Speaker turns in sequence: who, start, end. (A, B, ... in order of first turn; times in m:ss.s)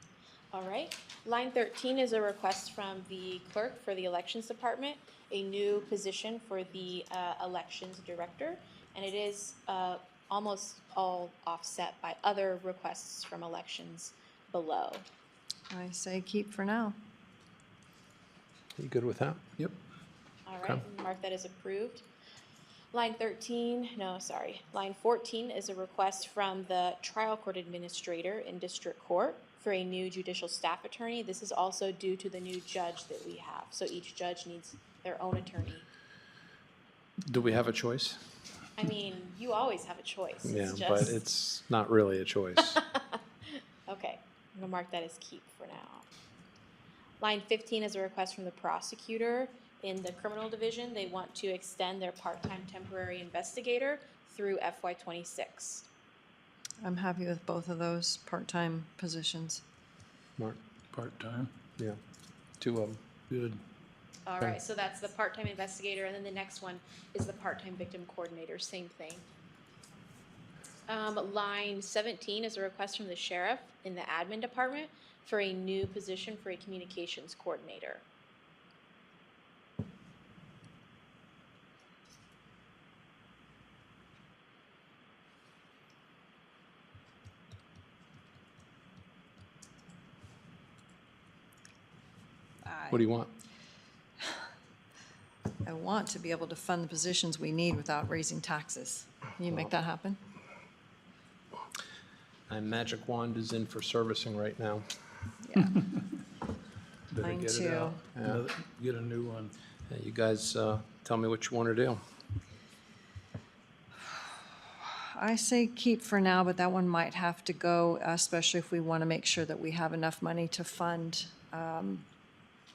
0:00.5-0:15.0 A
0:15.7-0:17.0 B
0:18.8-0:19.4 C
0:20.4-0:22.0 A
0:22.9-0:35.8 A
0:37.3-0:38.2 C
0:38.8-0:41.2 A
0:40.4-0:42.8 C
0:42.7-0:46.1 A
0:47.2-0:55.9 A
0:56.8-0:59.6 B
1:00.9-1:01.5 D
1:02.6-1:03.0 C
1:03.3-1:03.6 D
1:04.3-1:09.2 A
1:10.9-1:18.0 A
1:32.6-1:33.0 B
1:32.9-1:33.3 C
1:35.6-1:40.2 B
1:42.5-1:45.3 C
1:45.4-1:45.7 B
1:47.1-1:49.5 D
1:47.2-1:48.0 B
1:47.2-1:47.6 C
1:48.1-1:48.4 C
1:49.9-1:52.0 C
1:54.8-2:02.0 B